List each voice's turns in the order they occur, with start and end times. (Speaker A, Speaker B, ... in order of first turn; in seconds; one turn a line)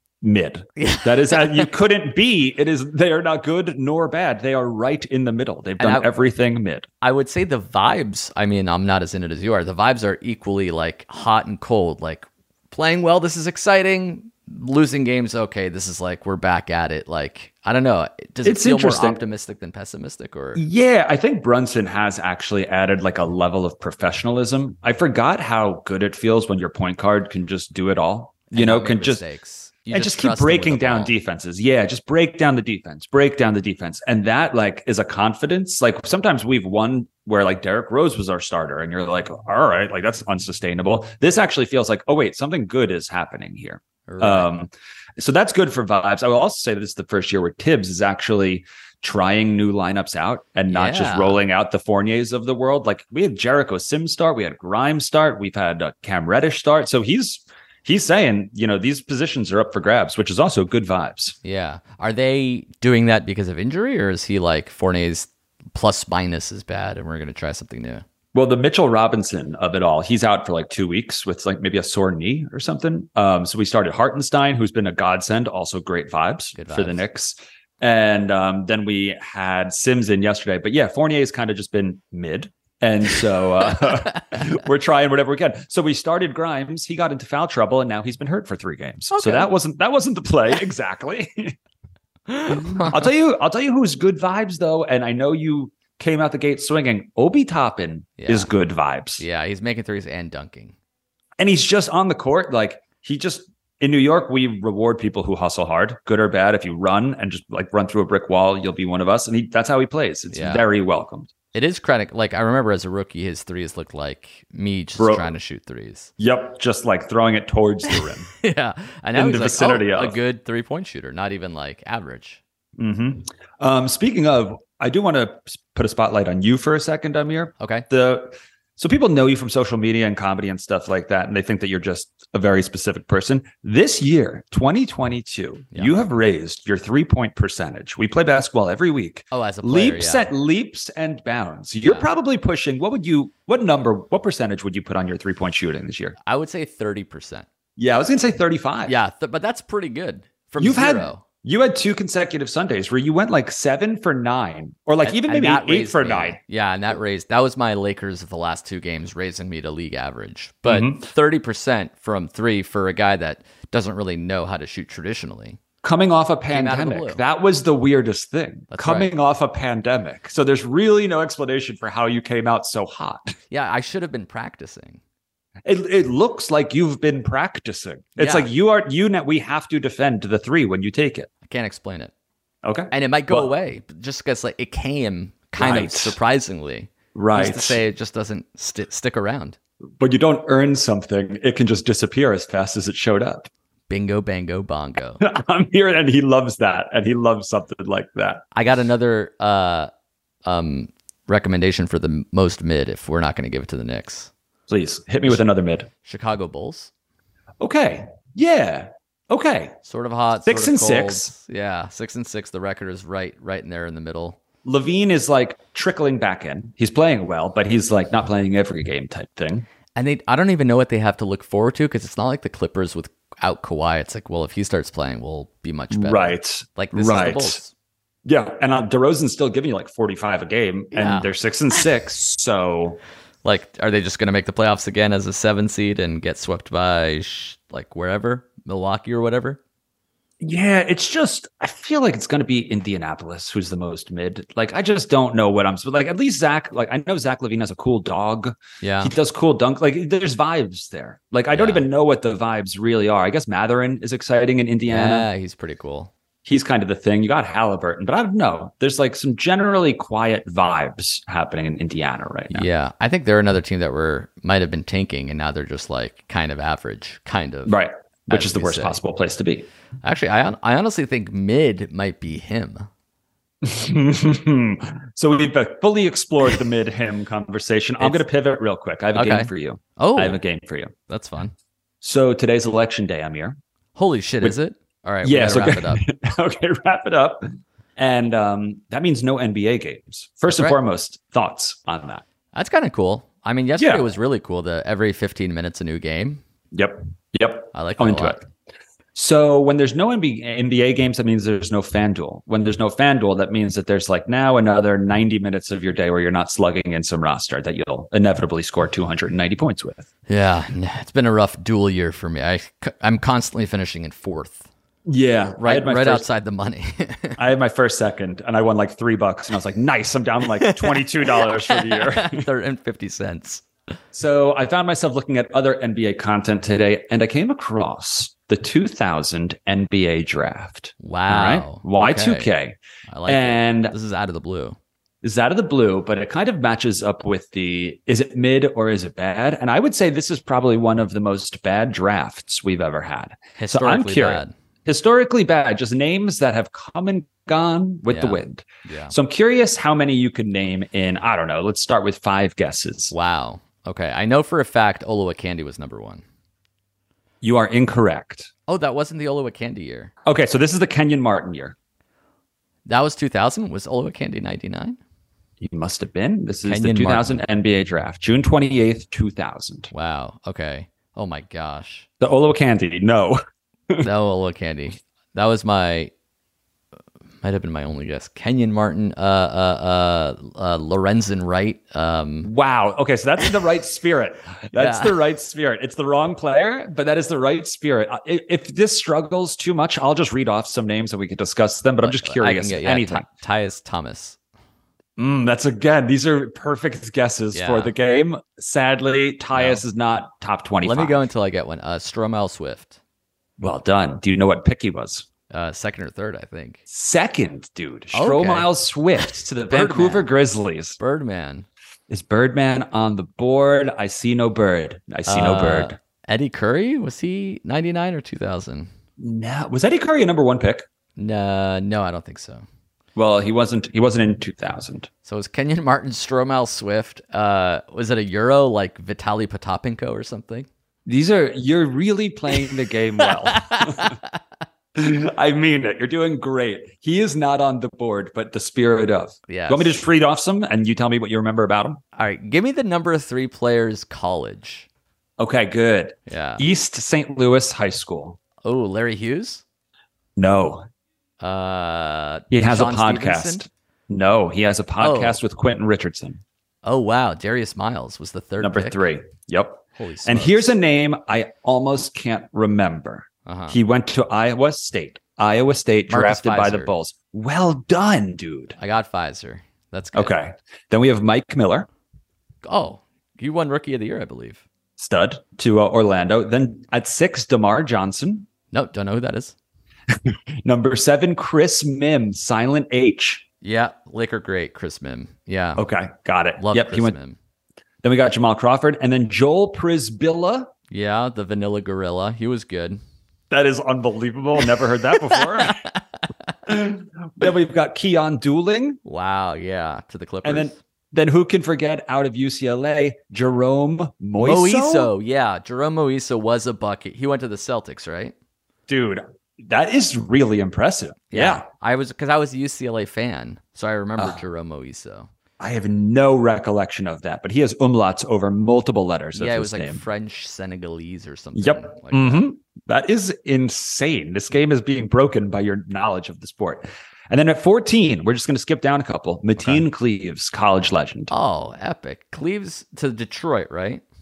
Speaker A: 0.2-6.9
Speaker B: 0.8-1.7
Speaker B: 5.8-6.1
Speaker B: 7.0-20.6
Speaker A: 18.4-19.2
Speaker A: 20.6-29.2
Speaker B: 28.5-31.1
Speaker A: 29.9-61.4
Speaker B: 44.1-44.5
Speaker B: 50.7-51.4
Speaker B: 61.4-68.0
Speaker A: 68.3-91.5
Speaker B: 76.6-77.0
Speaker B: 89.1-89.5
Speaker B: 92.3-93.1
Speaker A: 92.5-99.2
Speaker B: 98.2-98.5
Speaker B: 99.2-100.8
Speaker A: 101.4-111.3
Speaker B: 110.3-110.7
Speaker B: 111.5-116.1
Speaker A: 115.0-115.3
Speaker A: 116.2-118.3
Speaker B: 118.4-122.4
Speaker A: 119.2-120.2
Speaker A: 122.8-146.2
Speaker B: 127.6-127.9
Speaker B: 139.3-140.3
Speaker B: 141.8-142.1
Speaker B: 146.2-147.5
Speaker A: 147.8-149.0
Speaker B: 148.9-151.2
Speaker A: 150.6-156.4
Speaker B: 155.0-165.6
Speaker A: 160.7-161.1
Speaker A: 165.8-173.3
Speaker B: 166.5-167.2
Speaker B: 168.7-169.1
Speaker B: 173.5-175.0
Speaker A: 175.7-181.3
Speaker B: 178.2-178.5
Speaker B: 181.4-182.1
Speaker A: 182.6-183.5
Speaker B: 182.9-189.6
Speaker A: 185.6-186.2
Speaker A: 187.1-187.8
Speaker A: 190.0-193.5
Speaker B: 193.9-195.2
Speaker A: 195.2-198.4
Speaker B: 198.5-199.9
Speaker B: 200.4-204.3
Speaker A: 204.7-205.9
Speaker B: 206.0-206.9
Speaker A: 207.6-209.8
Speaker B: 209.8-214.4
Speaker A: 210.4-211.3
Speaker A: 214.7-219.7
Speaker B: 220.0-227.7
Speaker A: 225.9-227.6
Speaker A: 228.2-233.0
Speaker B: 230.9-231.3
Speaker B: 233.4-239.6
Speaker A: 240.4-255.3
Speaker B: 248.8-249.1
Speaker B: 251.5-251.8
Speaker B: 254.9-256.1
Speaker A: 256.4-262.7
Speaker B: 262.5-267.8
Speaker A: 267.7-269.7
Speaker B: 268.3-269.0
Speaker B: 270.0-272.9
Speaker A: 273.6-280.9
Speaker B: 279.1-280.4
Speaker B: 281.1-281.5
Speaker A: 282.0-283.6
Speaker B: 284.0-286.0
Speaker A: 285.2-292.2
Speaker B: 290.5-290.8
Speaker B: 292.5-296.4
Speaker A: 293.8-294.1
Speaker A: 296.7-298.4
Speaker B: 297.7-298.4
Speaker A: 299.1-310.1
Speaker B: 310.3-314.7
Speaker A: 315.1-316.3
Speaker B: 315.6-317.4
Speaker A: 317.4-322.5
Speaker B: 320.6-323.6
Speaker A: 324.1-333.9
Speaker B: 331.0-332.5
Speaker B: 333.1-334.8
Speaker A: 335.2-353.1
Speaker B: 343.6-344.5
Speaker B: 348.1-349.1
Speaker B: 353.1-356.2
Speaker A: 357.4-358.5
Speaker B: 358.7-360.1
Speaker A: 360.2-361.8
Speaker B: 362.9-365.0
Speaker A: 365.6-369.9
Speaker B: 366.6-367.4
Speaker B: 369.9-372.1
Speaker A: 372.2-374.1
Speaker B: 374.0-376.1
Speaker B: 377.4-382.5
Speaker A: 382.4-393.3
Speaker B: 384.8-385.2
Speaker B: 392.0-394.4
Speaker A: 395.2-401.3
Speaker B: 397.5-397.9
Speaker B: 399.5-399.8
Speaker B: 400.8-403.0
Speaker A: 403.6-405.3
Speaker B: 405.5-406.8
Speaker A: 406.9-411.0
Speaker B: 408.1-408.7
Speaker B: 409.7-410.3
Speaker B: 411.0-411.7
Speaker A: 412.1-416.0
Speaker B: 415.3-418.9
Speaker A: 419.2-420.9
Speaker B: 421.2-422.6
Speaker A: 423.2-425.1
Speaker B: 425.2-430.7
Speaker A: 431.1-434.2
Speaker B: 433.4-434.3
Speaker A: 434.9-442.0
Speaker B: 439.5-440.0
Speaker B: 442.2-444.9
Speaker A: 445.4-448.4
Speaker B: 446.3-446.6
Speaker B: 448.6-449.6
Speaker A: 450.4-450.9
Speaker B: 451.4-453.6
Speaker A: 452.5-456.4
Speaker B: 455.0-455.4
Speaker B: 456.8-459.0
Speaker A: 458.6-468.8
Speaker B: 460.0-460.7
Speaker B: 463.5-463.8
Speaker B: 466.1-466.9
Speaker B: 468.8-470.3
Speaker A: 470.1-471.9
Speaker B: 472.6-474.6
Speaker A: 475.0-478.5
Speaker B: 478.7-479.6
Speaker A: 480.1-483.4
Speaker B: 483.6-485.8
Speaker A: 485.8-487.2
Speaker B: 486.6-487.4
Speaker A: 488.0-490.7
Speaker B: 490.9-493.0
Speaker A: 493.5-495.8
Speaker B: 495.3-496.0
Speaker A: 496.7-499.0
Speaker B: 499.1-500.8
Speaker A: 500.4-505.1
Speaker B: 504.4-508.3
Speaker A: 508.9-511.7
Speaker B: 511.3-515.3
Speaker A: 515.6-520.0
Speaker B: 519.4-522.4
Speaker A: 521.5-531.3
Speaker B: 529.6-529.8
Speaker B: 531.3-534.0